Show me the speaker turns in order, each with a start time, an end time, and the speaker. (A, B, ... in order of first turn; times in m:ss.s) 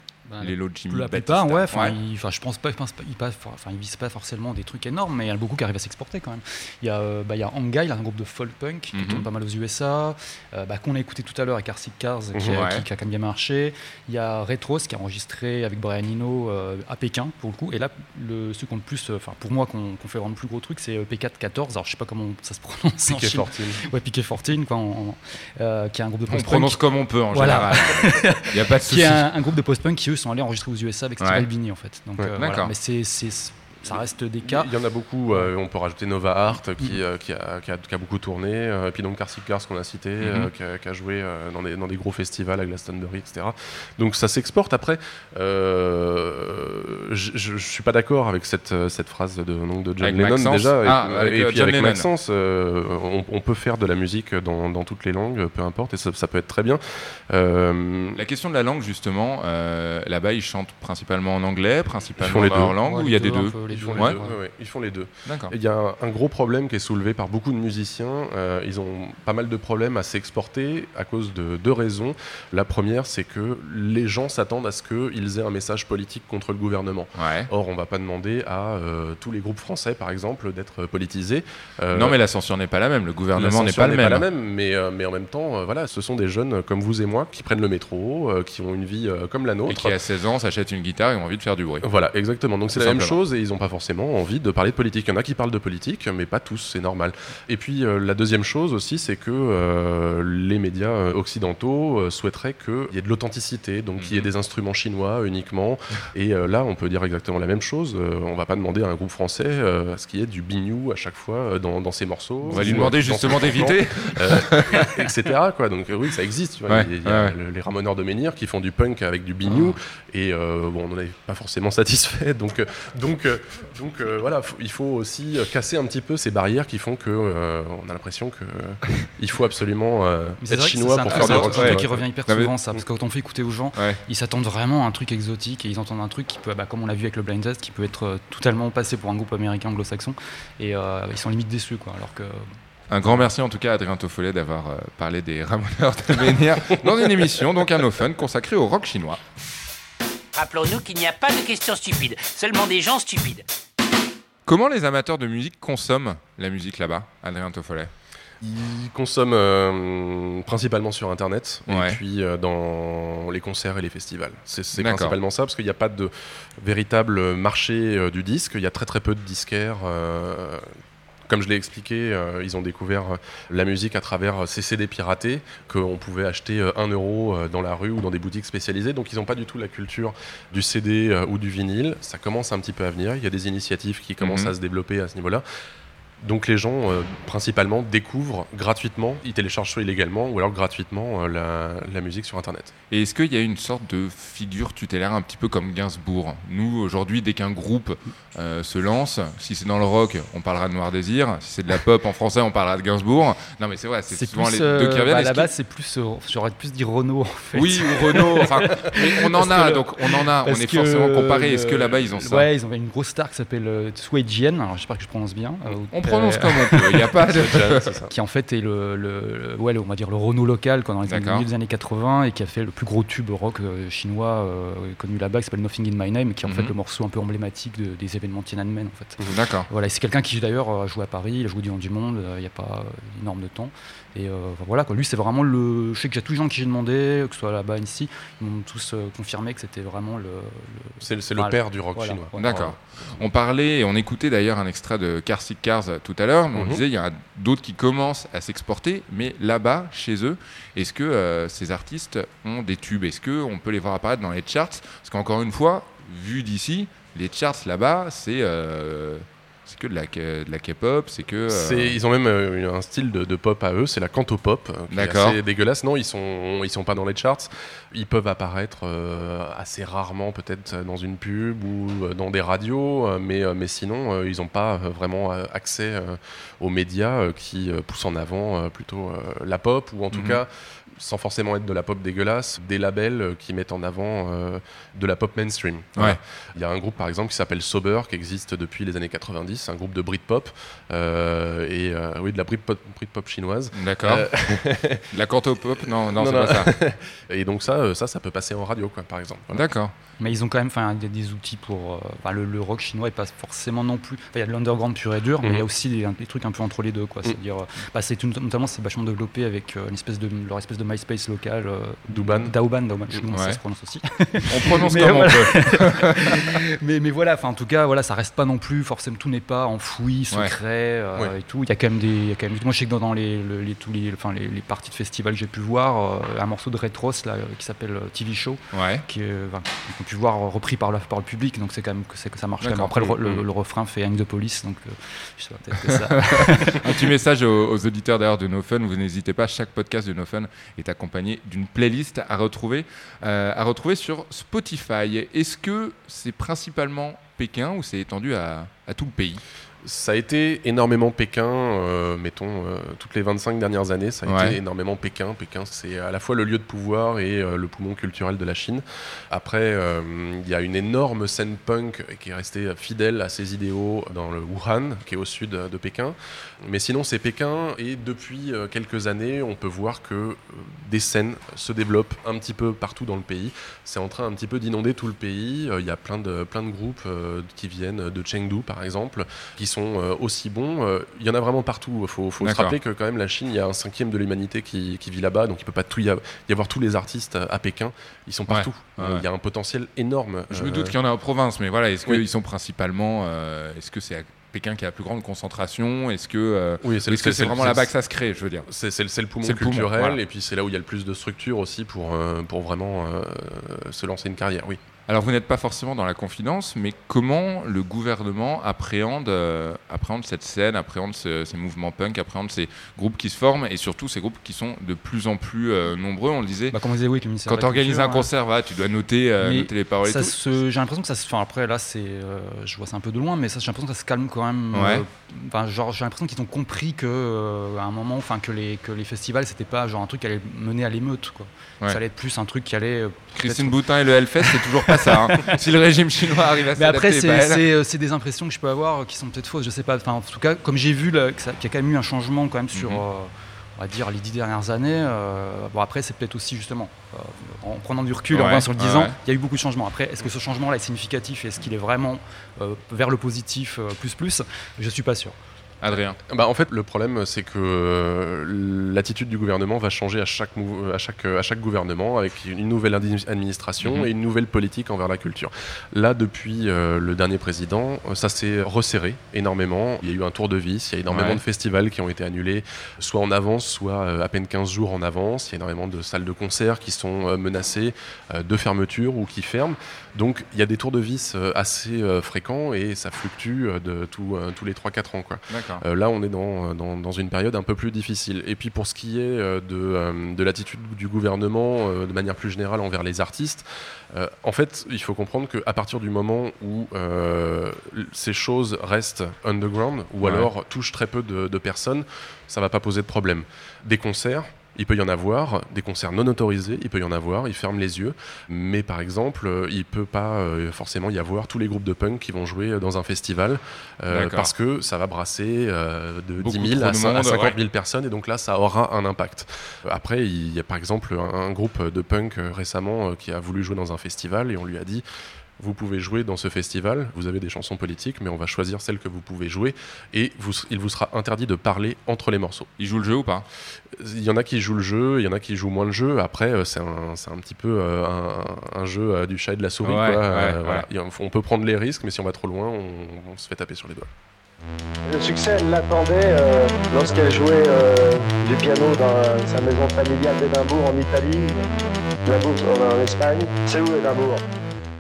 0:00.3-0:34.7 A
0:00.4-0:02.0 B
0:08.9-0:09.3 B
0:12.4-0:12.6 C
0:12.5-0:12.8 B
0:23.0-0:23.8 C
0:26.3-0:29.3 B
0:31.2-0:31.5 B
0:32.4-0:32.7 B
0:33.9-0:58.2 C
0:40.2-0:40.5 B
0:50.0-0:52.1 B
0:58.2-1:04.2 B
1:02.2-1:02.8 C
1:02.8-1:04.4 A
1:03.7-1:22.2 C
1:05.3-1:05.5 B
1:17.2-1:17.5 B
1:21.9-1:24.2 B
1:23.4-1:30.0 C
1:29.7-1:31.8 B
1:31.8-2:12.0 C
1:32.7-1:33.2 B
1:44.0-1:44.3 B
1:52.5-1:54.9 B
1:56.7-1:57.3 B
1:59.5-1:59.8 B
2:10.4-2:22.4 A
2:11.1-2:12.5 B
2:22.9-2:29.2 B
2:26.8-2:27.3 C
2:30.4-2:33.4 D
2:34.5-2:37.9 B
2:38.4-2:50.7 C
2:41.7-2:42.0 B
2:44.8-2:45.2 B
2:51.3-3:05.4 C
3:04.2-3:04.5 B
3:06.2-3:12.7 C
3:12.9-3:25.5 B
3:24.1-3:37.1 A
3:27.5-3:32.5 B
3:35.9-3:37.9 B
3:37.3-3:38.1 C
3:38.1-4:02.5 A
3:41.1-3:41.5 B
3:46.4-3:46.7 B
3:49.3-3:49.7 B
4:01.0-4:03.2 C
4:02.4-4:22.0 B
4:06.5-4:06.8 C
4:21.5-4:55.1 C
4:24.9-4:25.4 B
4:40.1-4:40.4 B
4:53.8-4:56.7 B
4:56.0-4:59.6 C
4:59.5-4:59.9 B
5:00.2-5:37.0 A
5:12.1-5:12.5 C
5:13.3-5:13.6 B
5:14.5-5:16.4 B
5:28.7-5:29.0 B
5:32.6-5:33.2 B
5:35.8-5:49.4 B
5:49.8-6:31.0 C
5:54.3-5:54.6 B
6:22.4-6:22.8 B
6:28.5-6:29.2 B
6:30.5-6:38.7 B
6:36.8-6:37.9 C
6:38.7-6:44.8 C
6:39.4-6:40.2 B
6:45.1-6:56.8 B
6:56.7-6:58.3 A
6:57.5-7:00.4 B
6:59.4-7:13.8 A
7:04.7-7:05.0 B
7:13.4-7:17.6 B
7:14.4-7:15.6 A
7:16.7-7:35.4 A
7:22.7-7:23.0 B
7:28.3-7:29.2 B
7:35.8-7:36.2 B
7:36.3-8:45.0 C
7:43.8-7:44.1 B
7:51.1-7:51.4 B
8:05.5-8:05.8 B
8:20.2-8:20.5 B
8:34.1-8:34.5 B
8:36.4-8:37.6 B
8:45.6-8:52.7 C
8:52.8-8:53.5 B
8:54.0-9:04.1 C
8:59.8-9:00.9 B
9:05.1-9:11.5 E
9:12.3-9:14.4 E